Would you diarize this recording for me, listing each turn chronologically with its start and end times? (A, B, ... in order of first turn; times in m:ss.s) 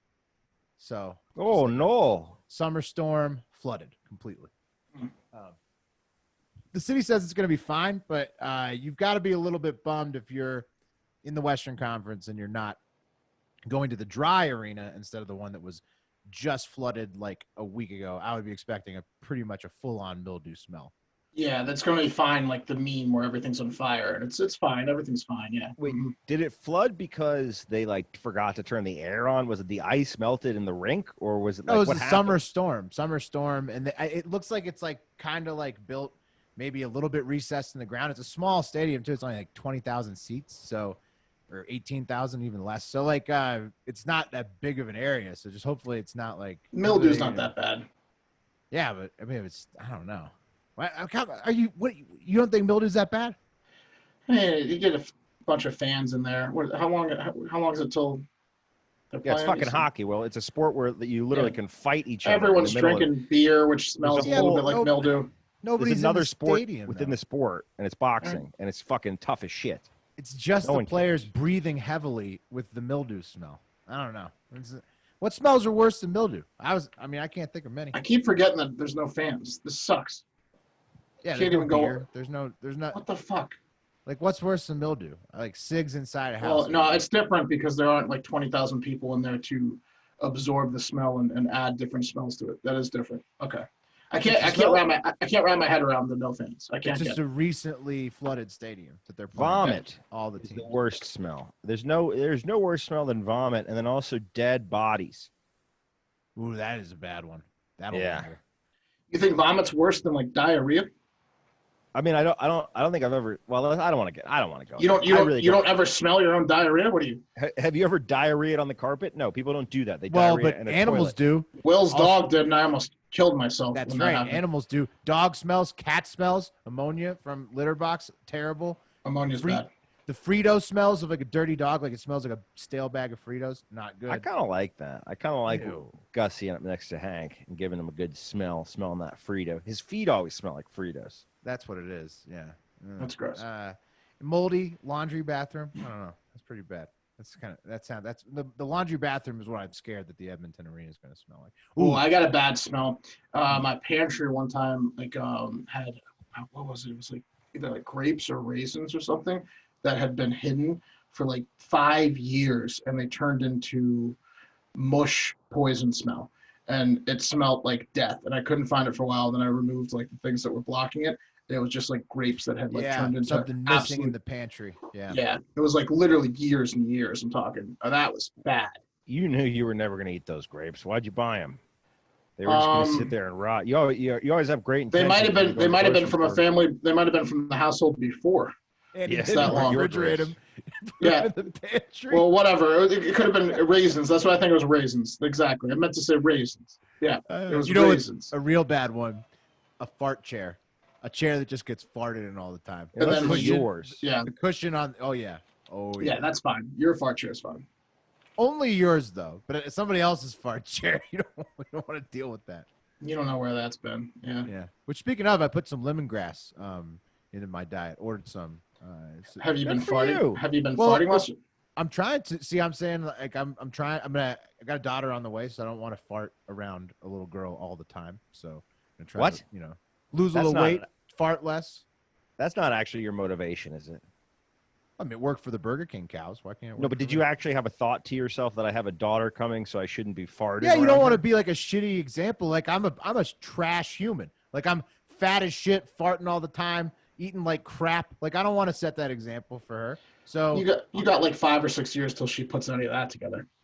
0:00.8-0:04.5 A
0:01.4-0:02.4 B
0:05.3-0:05.6 A
0:06.7-0:10.7 A
0:11.2-0:12.8 A
0:13.6-0:20.9 A
0:21.3-0:26.1 C
0:25.8-0:32.4 B
0:31.7-0:47.5 A
0:46.7-0:47.9 C
0:48.7-0:53.4 A
0:54.3-0:58.2 C
0:59.1-0:59.9 C
0:59.2-1:03.1 B
1:02.2-1:05.3 C
1:04.0-1:04.8 B
1:04.2-1:05.1 A
1:05.6-1:07.2 A
1:05.8-1:09.9 B
1:10.2-1:18.0 A
1:10.6-1:11.3 B
1:17.9-1:20.2 C
1:21.2-1:23.0 A
1:21.3-1:22.0 C
1:22.9-1:23.6 C
1:24.0-1:27.0 A
1:26.4-1:37.2 C
1:34.3-1:34.8 A
1:36.8-1:40.8 A
1:39.4-1:45.3 B
1:46.4-1:48.4 A
1:47.9-1:48.3 B
1:49.1-1:50.9 C
1:51.9-1:55.6 B
1:54.8-1:57.2 C
1:57.4-2:01.2 B
2:00.1-2:02.2 A
2:01.6-2:04.4 C
2:03.7-2:08.8 A
2:09.0-2:09.7 C
2:09.3-2:14.3 A
2:14.1-2:21.2 B
2:15.5-2:15.9 A
2:21.4-2:32.0 A
2:23.0-2:23.4 C
2:31.8-2:44.2 C
2:44.7-2:54.1 C
2:52.7-2:55.2 A
2:55.1-2:58.8 C
2:59.1-3:01.6 B
3:02.4-3:06.4 B
3:02.4-3:03.1 C
3:04.9-3:08.5 C
3:08.9-3:12.2 A
3:09.0-3:10.3 B
3:09.2-3:09.8 C
3:11.0-3:11.3 C
3:12.1-3:18.3 C
3:17.3-3:19.2 A
3:19.8-3:26.2 A
3:22.9-3:24.0 B
3:23.0-3:24.3 C
3:26.0-3:27.6 C
3:28.4-3:32.7 A
3:33.0-3:34.5 C
3:34.4-3:39.5 A
3:39.4-3:41.4 C
3:39.6-3:40.4 B
3:40.8-3:41.2 A
3:41.8-3:51.8 A
3:49.2-3:49.4 B
3:50.3-3:50.8 B
3:52.4-3:54.0 B
3:55.0-3:57.2 A
3:56.8-4:01.2 B
4:00.6-4:10.6 A
4:10.5-4:13.4 C